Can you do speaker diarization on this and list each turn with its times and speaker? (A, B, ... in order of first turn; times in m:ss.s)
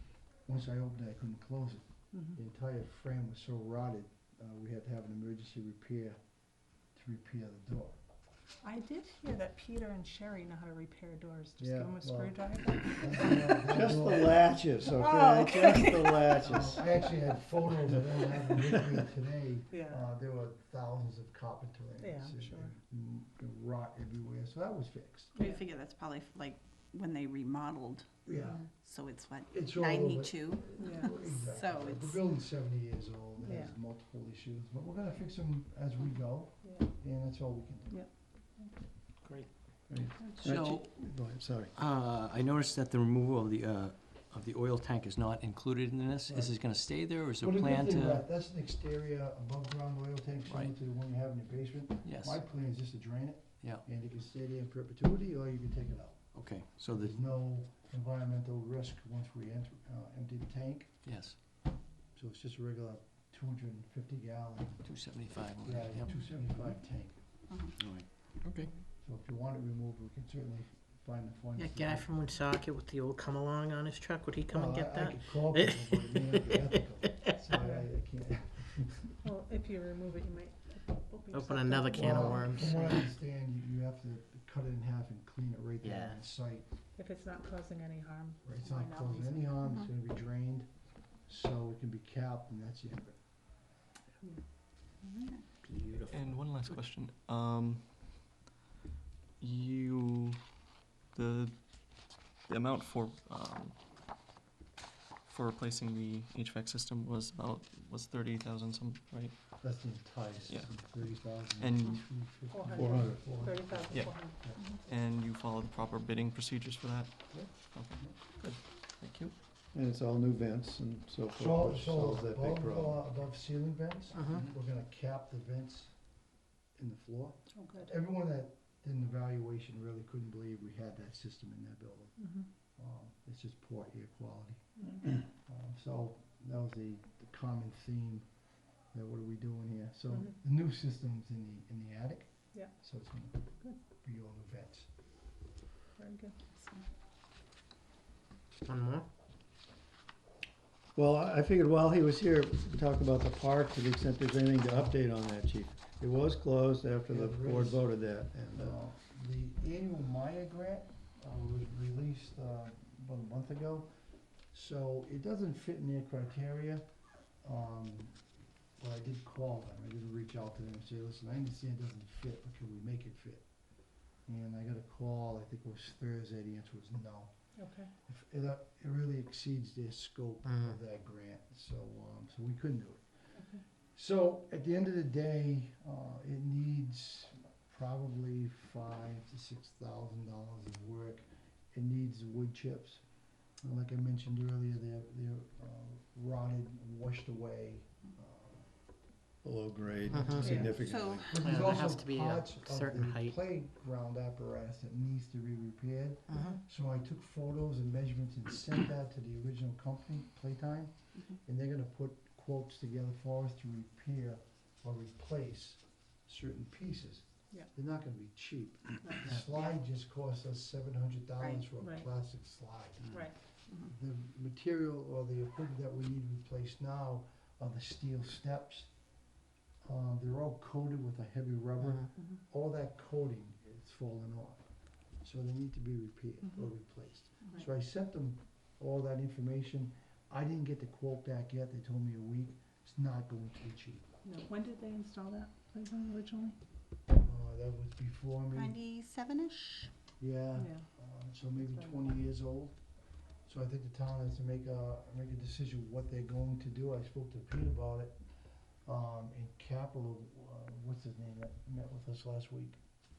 0:00.4-0:06.2 A
0:02.1-0:02.4 B
0:06.9-0:08.0 A
0:08.6-0:13.6 B
0:11.6-0:14.4 A
0:13.6-0:16.9 C
0:14.8-0:16.2 B
0:16.4-0:25.4 A
0:19.7-0:20.0 B
0:22.0-0:22.8 B
0:25.3-0:32.2 D
0:25.4-0:25.6 B
0:28.2-0:28.6 A
0:29.5-0:38.0 A
0:30.8-0:31.2 B
0:33.4-0:33.8 B
0:36.6-0:36.9 B
0:37.9-0:38.8 B
0:39.9-0:41.7 C
0:40.3-0:48.2 E
0:46.3-1:00.9 A
0:50.4-0:50.8 E
0:52.0-0:52.5 E
0:56.3-0:57.2 E
1:01.0-1:01.3 E
1:02.1-1:04.9 A
1:04.8-1:06.6 E
1:05.6-1:07.2 A
1:07.5-1:07.7 D
1:07.8-1:08.7 E
1:09.0-1:12.3 A
1:11.6-1:17.4 F
1:14.5-1:19.2 A
1:17.6-1:17.9 B
1:19.2-1:23.0 B
1:21.3-1:23.1 F
1:21.9-1:26.7 A
1:25.8-1:26.2 F
1:27.0-1:29.6 B
1:28.4-1:33.2 A
1:34.2-1:35.3 B
1:35.6-1:36.8 E
1:36.1-1:38.1 G
1:39.4-1:40.6 G
1:41.1-1:43.8 G
1:45.2-1:50.0 G
1:49.6-1:54.6 A
1:50.5-1:52.3 G
1:52.5-1:54.6 B
1:52.8-1:53.2 C
1:53.9-1:59.3 G
1:59.7-2:03.1 C
2:01.4-2:05.9 A
2:04.1-2:04.4 F
2:06.8-2:12.2 A
2:07.5-2:08.0 B
2:12.2-2:12.5 B
2:12.7-2:18.2 A
2:18.9-2:24.9 A
2:26.0-2:26.4 B
2:26.5-2:26.8 D
2:28.6-2:29.0 F
2:30.9-2:38.8 C
2:37.1-2:37.9 A
2:38.5-2:43.9 A
2:44.5-2:46.8 A
2:47.4-2:48.2 A
2:48.8-2:53.4 A
2:54.2-2:57.3 A
2:57.6-2:57.9 B
2:58.0-3:03.0 A
3:00.4-3:00.8 F
3:03.4-3:03.6 B
3:03.9-3:13.0 A
3:13.6-3:18.7 A
3:19.4-3:21.4 C
3:20.1-3:20.4 F
3:20.3-3:43.2 A
3:20.4-3:20.7 B
3:20.7-3:21.3 D
3:21.2-3:23.4 F
3:26.3-3:26.6 F
3:39.0-3:39.6 B
3:41.8-3:42.1 B
3:43.8-3:48.9 A
3:49.8-3:54.6 A
3:51.8-3:52.1 F
3:55.2-4:04.0 A
3:56.4-3:56.7 B
4:04.2-4:06.6 B
4:07.2-4:08.8 A
4:08.5-4:09.9 D
4:10.2-4:12.8 A
4:10.5-4:10.8 B
4:11.6-4:12.1 B
4:13.4-4:18.2 A
4:18.8-4:22.8 A